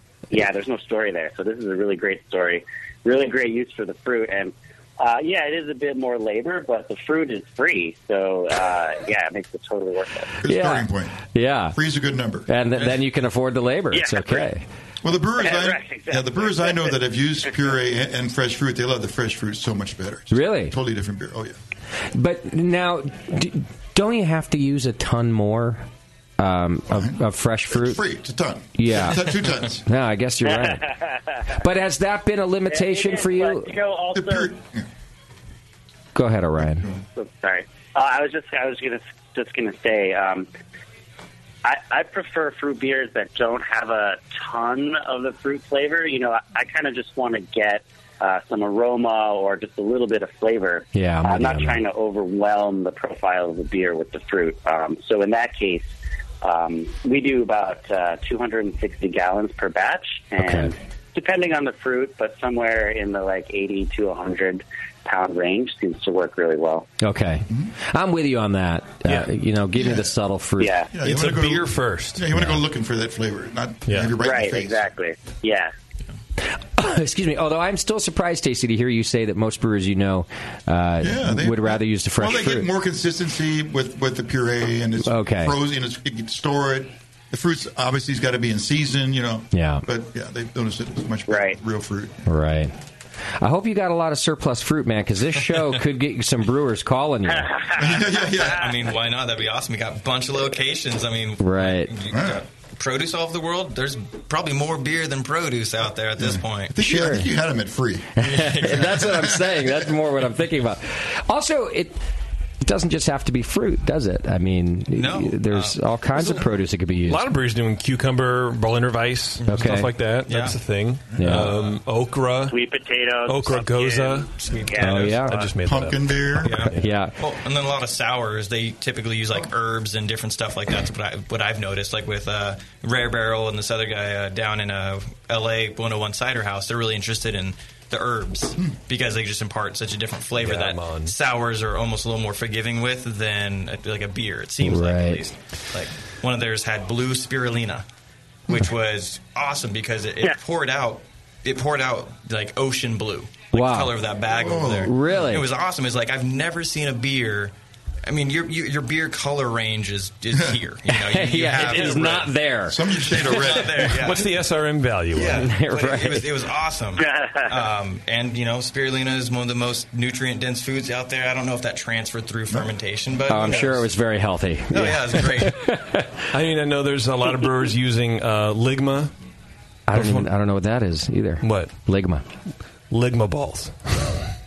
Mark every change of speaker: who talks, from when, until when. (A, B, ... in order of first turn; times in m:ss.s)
0:00.3-0:10.4 A
0:10.4-0:11.2 B
0:10.5-0:11.8 C
0:11.7-0:12.5 B
0:12.5-0:14.6 C
0:13.9-0:14.5 A
0:15.0-0:21.6 B
0:15.4-0:16.9 A
0:20.3-0:20.7 C
0:22.1-0:25.8 C
0:26.4-0:28.0 C
0:26.9-0:27.2 B
0:27.7-0:29.8 B
0:28.8-0:30.8 C
0:30.4-0:31.4 A
0:31.5-0:33.7 C
0:32.7-0:34.5 A
0:34.1-0:34.8 B
0:36.1-0:36.9 C
0:36.8-0:37.0 B
0:37.2-0:40.5 A
0:41.6-1:06.9 A
0:50.9-0:51.8 C
1:00.4-1:00.7 C
1:07.0-1:10.8 C
1:09.8-1:10.1 B
1:10.6-1:10.9 A
1:10.9-1:14.9 B
1:11.0-1:12.2 D
1:13.9-1:14.1 D
1:14.2-1:15.7 A
1:16.8-1:22.7 C
1:21.0-1:32.2 B
1:25.0-1:25.6 C
1:29.5-1:29.8 C
1:31.3-1:31.6 A
1:32.3-1:32.7 C
1:33.4-1:37.6 C
1:37.8-1:38.7 B
1:37.9-1:46.8 E
1:41.4-1:41.9 C
1:42.1-1:42.4 B
1:46.2-1:48.2 B
1:46.8-1:47.3 C
1:48.2-1:52.0 C
1:48.2-1:49.3 E
1:49.1-1:49.7 B
1:52.6-1:57.3 C
1:54.9-1:56.4 E
1:57.1-2:02.5 D
1:59.4-2:00.6 E
1:59.5-1:59.9 C
2:01.2-2:01.5 C
2:01.4-2:01.8 E
2:02.5-2:05.1 A
2:03.3-2:06.9 D
2:04.4-2:04.8 E
2:04.8-2:05.5 C
2:05.6-2:06.6 B
2:06.4-2:27.8 E
2:06.6-2:07.1 C
2:20.4-2:21.1 D
2:24.6-2:25.2 C
2:28.5-2:37.5 E
2:33.5-2:33.9 C
2:34.3-2:34.9 B
2:34.8-2:35.5 C
2:38.0-2:44.3 E
2:40.9-2:43.1 C
2:42.7-2:43.9 B
2:43.9-2:45.5 D
2:45.1-2:54.0 E
2:45.4-2:46.3 C
2:47.0-2:47.5 A
2:53.3-2:56.1 C
2:54.7-2:55.8 E
2:56.3-2:59.1 D
2:59.9-3:02.2 C
2:59.9-3:00.3 D
3:01.4-3:01.7 D
3:02.9-3:04.2 D